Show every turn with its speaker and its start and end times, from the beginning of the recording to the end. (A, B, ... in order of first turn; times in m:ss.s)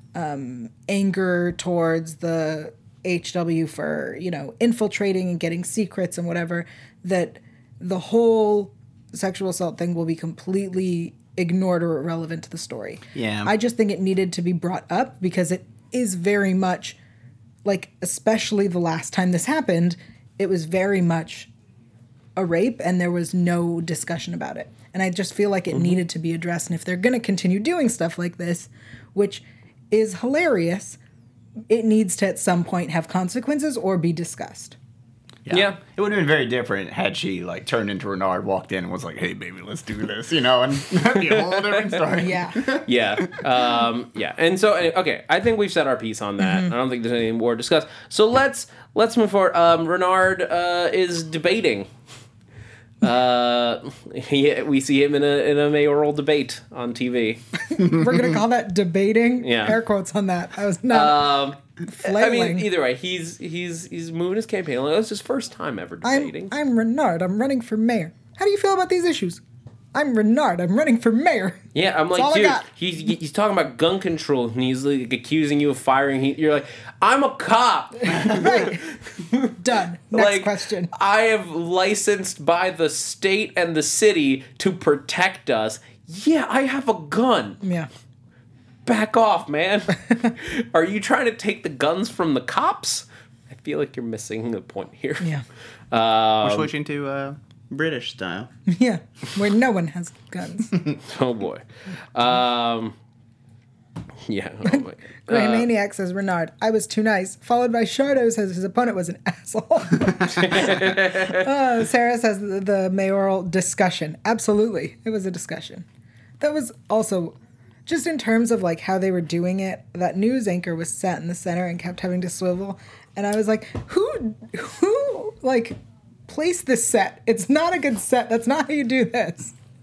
0:00.2-0:17.0 A
0:13.2-0:13.5 B
0:17.6-0:21.5 A
0:22.4-0:31.0 A
0:25.7-0:26.0 C
0:31.7-0:34.8 A
0:35.5-0:43.3 B
0:35.5-0:35.8 C
0:41.2-0:42.0 C
0:42.1-0:42.6 A
0:42.8-0:51.9 C
0:46.4-0:46.7 A
0:53.0-0:57.4 C
0:57.7-1:01.4 A
0:57.9-0:58.3 B
0:59.4-0:59.8 C
1:00.9-1:06.5 C
1:01.9-1:02.7 A
1:06.0-1:09.4 A
1:09.9-1:12.7 A
1:11.7-1:19.6 C
1:18.1-1:18.9 A
1:19.6-1:20.9 A
1:20.1-1:27.6 C
1:27.6-1:27.9 A
1:28.9-1:35.3 C
1:35.9-1:36.7 C
1:36.4-1:38.5 B
1:38.7-1:40.7 A
1:41.0-1:43.0 C
1:44.3-1:45.7 C
1:44.7-1:55.8 A
1:50.3-1:51.4 C
1:56.4-2:05.8 A
2:06.3-2:09.5 A